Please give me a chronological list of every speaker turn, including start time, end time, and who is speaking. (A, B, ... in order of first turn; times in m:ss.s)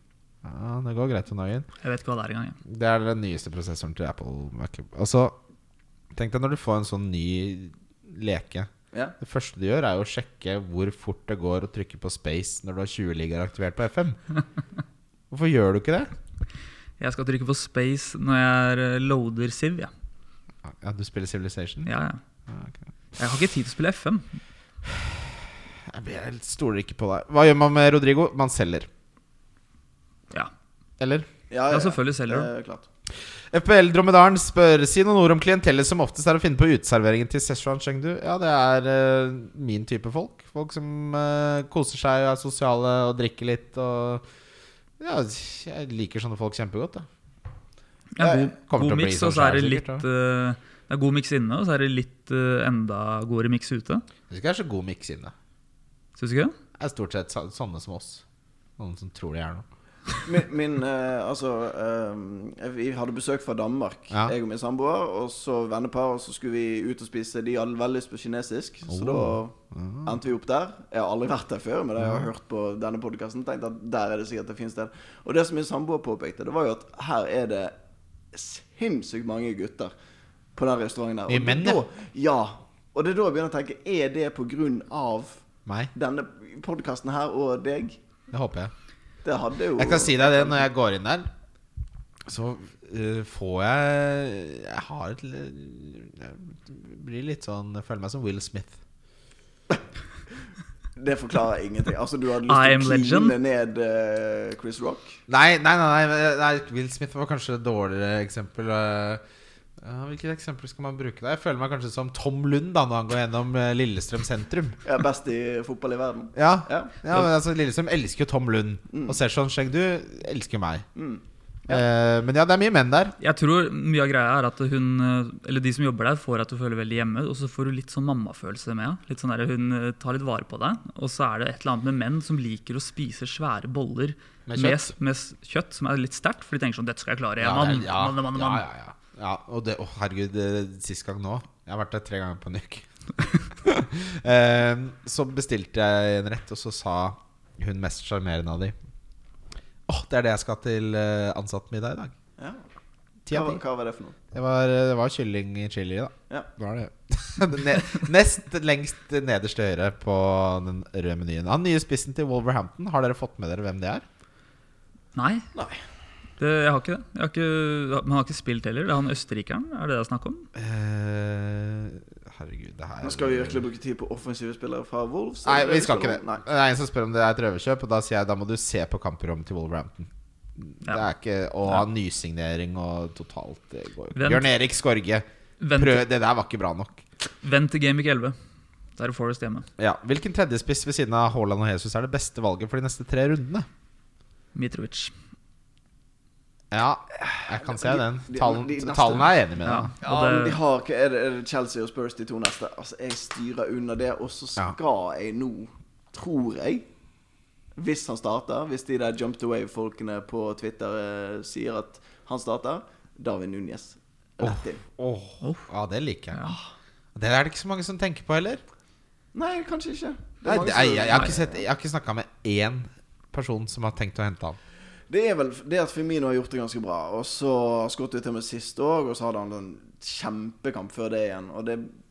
0:00.4-0:01.7 A
0:01.8-0:02.6 B
0:02.7-0:05.4 A
0:06.1-0:14.2 A
0:15.3-0:16.1 A
0:17.0-0:19.9 B
0:20.6-0:21.9 A
0:21.9-0:22.2 B
0:22.5-0:22.8 A
0:23.2-0:24.3 B
0:24.9-0:25.3 A
0:25.9-0:28.9 A
0:31.0-0:31.3 A
0:31.5-0:32.9 C
0:31.7-0:32.5 B
0:33.5-0:44.2 A
0:45.0-0:47.1 A
0:48.2-0:54.0 B
0:48.2-0:48.5 C
0:48.7-0:50.0 A
0:54.3-0:55.3 A
0:56.2-0:56.6 B
0:56.8-0:58.2 A
0:58.8-0:59.6 A
1:00.2-1:17.8 C
1:08.9-1:10.1 A
1:12.0-1:12.3 A
1:18.3-1:19.9 C
1:20.6-1:25.4 C
1:21.3-1:21.8 A
1:25.7-1:25.9 A
1:25.9-1:28.0 C
1:28.3-1:28.7 A
1:29.2-1:30.7 C
1:29.8-1:31.3 A
1:32.3-1:38.8 A
1:41.0-1:45.2 C
1:42.5-1:43.4 B
1:45.3-1:49.2 A
1:49.8-1:54.8 A
1:54.8-1:57.0 C
1:56.4-2:00.9 A
1:58.9-1:59.2 C
2:01.0-2:01.8 C
2:01.7-2:03.2 A
2:03.2-2:18.6 B
2:14.5-2:14.9 A
2:17.4-2:28.8 A
2:29.9-2:32.1 A
2:33.3-2:33.6 A
2:33.3-2:34.2 C
2:34.3-2:44.0 A
2:45.2-2:45.5 B
2:45.6-2:45.8 C
2:46.4-2:50.5 B
2:50.6-2:53.6 A
2:53.0-2:56.4 C
2:55.4-3:07.0 A
3:04.2-3:04.5 B
3:05.6-3:06.0 B
3:07.4-3:08.4 B
3:09.0-3:09.7 B
3:09.8-3:13.7 A
3:14.6-3:15.1 B
3:16.7-3:19.9 A
3:17.2-3:19.4 C
3:19.6-3:20.6 B
3:20.0-3:26.9 C
3:27.8-3:34.8 C
3:34.4-3:36.6 A
3:35.4-3:35.7 B
3:36.3-3:36.6 B
3:37.2-3:38.6 A
3:39.3-3:41.6 C
3:40.4-3:44.6 A
3:41.1-3:41.4 B
3:45.1-3:51.9 C